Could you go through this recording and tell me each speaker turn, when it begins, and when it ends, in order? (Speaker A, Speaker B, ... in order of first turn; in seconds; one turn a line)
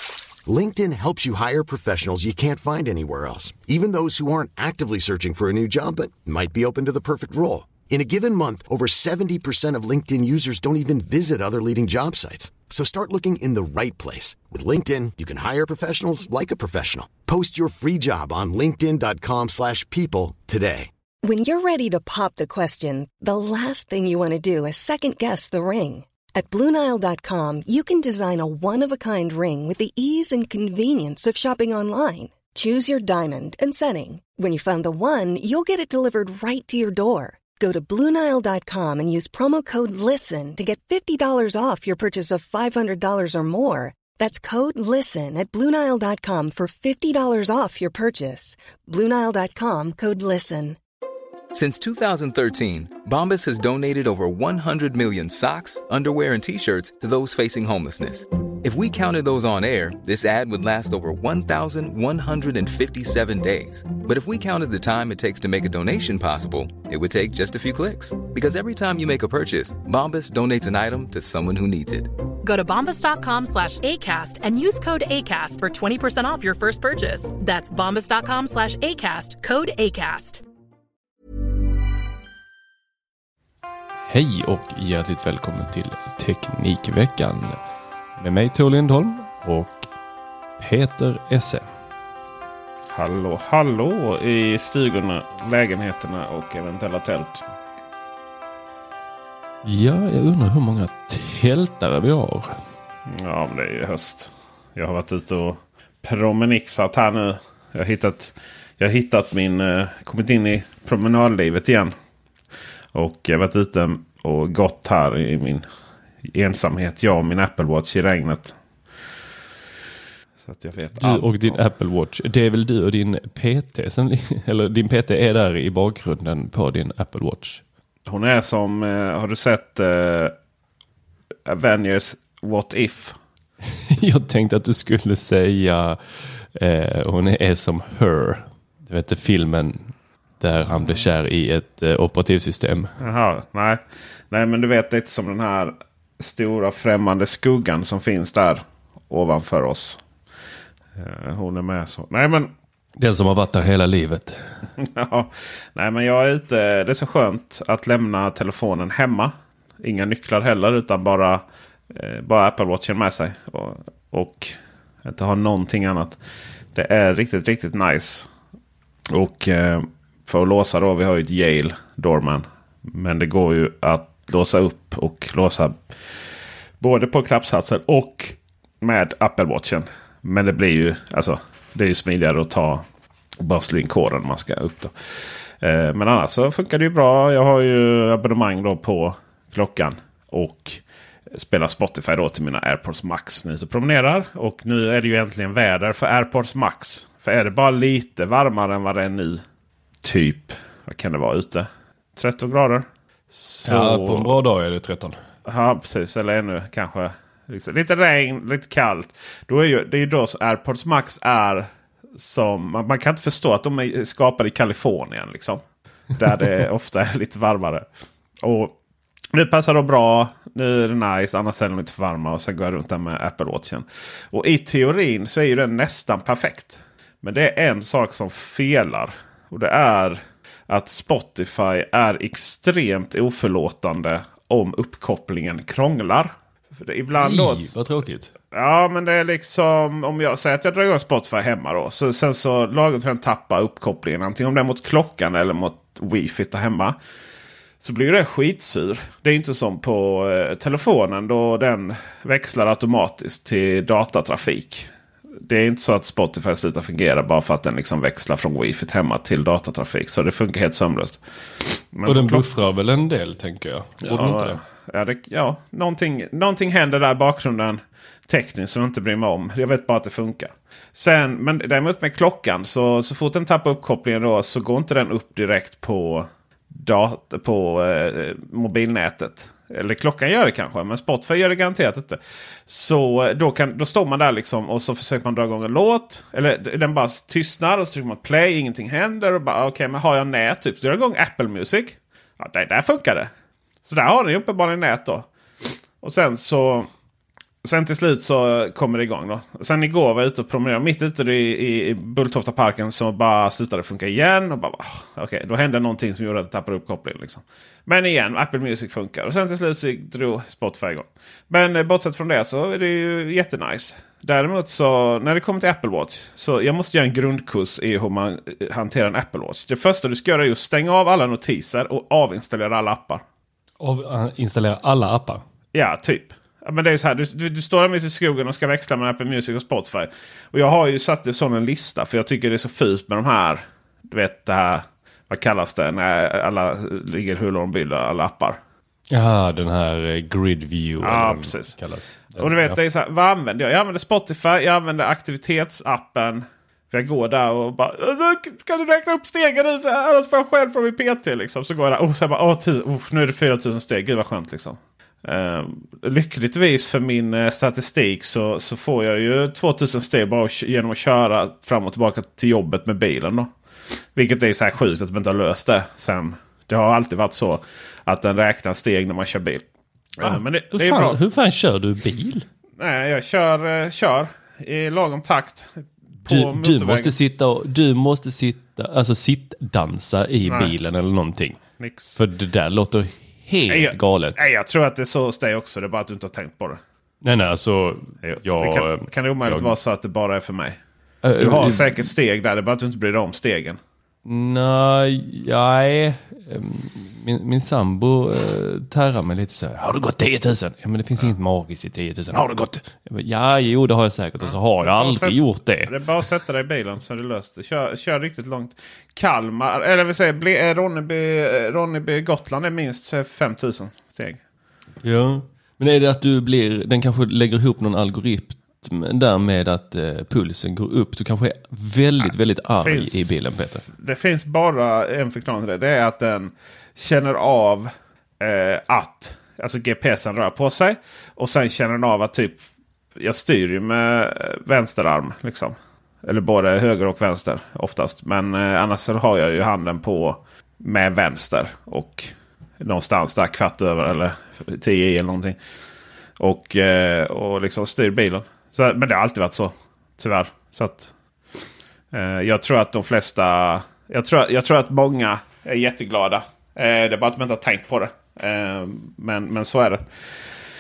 Speaker A: 0.5-20.9
Speaker B: 21.2-50.8
Speaker C: 51.5-72.1
Speaker D: 72.4-80.4
Speaker E: 84.1-87.6
Speaker E: 88.2-89.9
Speaker E: 90.6-91.7
Speaker F: 92.9-97.5
Speaker E: 99.6-102.6
Speaker F: 103.1-111.9
Speaker F: 112.9-115.7
Speaker F: 116.2-118.6
Speaker F: 120.4-121.6
Speaker E: 121.0-127.6
Speaker F: 128.1-130.3
Speaker F: 131.5-133.2
Speaker E: 133.9-142.9
Speaker F: 143.0-150.0
Speaker F: 151.0-152.5
Speaker E: 153.0-154.5
Speaker F: 154.8-166.2
Speaker F: 166.7-168.3
Speaker F: 169.1-175.8
Speaker F: 176.8-182.9
Speaker F: 183.4-184.9
Speaker F: 185.6-199.4
Speaker F: 200.0-204.4
Speaker E: 203.7-205.2
Speaker F: 205.4-215.6
Speaker F: 216.2-217.9
Speaker F: 218.4-218.8
Speaker F: 219.3-237.8
Speaker E: 237.2-238.3
Speaker F: 238.5-247.0
Speaker F: 247.8-254.9
Speaker F: 255.4-261.2
Speaker F: 261.9-262.5
Speaker E: 262.1-264.6
Speaker F: 264.1-293.3
Speaker F: 293.8-295.3
Speaker F: 296.0-296.9
Speaker F: 297.6-323.2
Speaker E: 323.8-325.4
Speaker F: 325.7-338.6
Speaker E: 339.1-342.8
Speaker F: 341.0-341.8
Speaker F: 342.4-363.5
Speaker F: 364.1-369.6
Speaker F: 370.2-371.2
Speaker E: 370.2-372.5
Speaker F: 372.8-377.1
Speaker E: 376.3-381.6
Speaker F: 380.4-380.7
Speaker F: 381.8-382.2
Speaker E: 382.2-384.4
Speaker F: 383.7-386.8
Speaker E: 387.2-389.7
Speaker F: 388.2-390.8
Speaker E: 391.2-392.1
Speaker F: 391.4-393.8
Speaker E: 394.2-406.0
Speaker F: 404.4-414.4
Speaker E: 415.0-423.9
Speaker F: 422.8-423.4
Speaker F: 423.9-445.6
Speaker F: 446.4-451.1
Speaker F: 452.1-460.0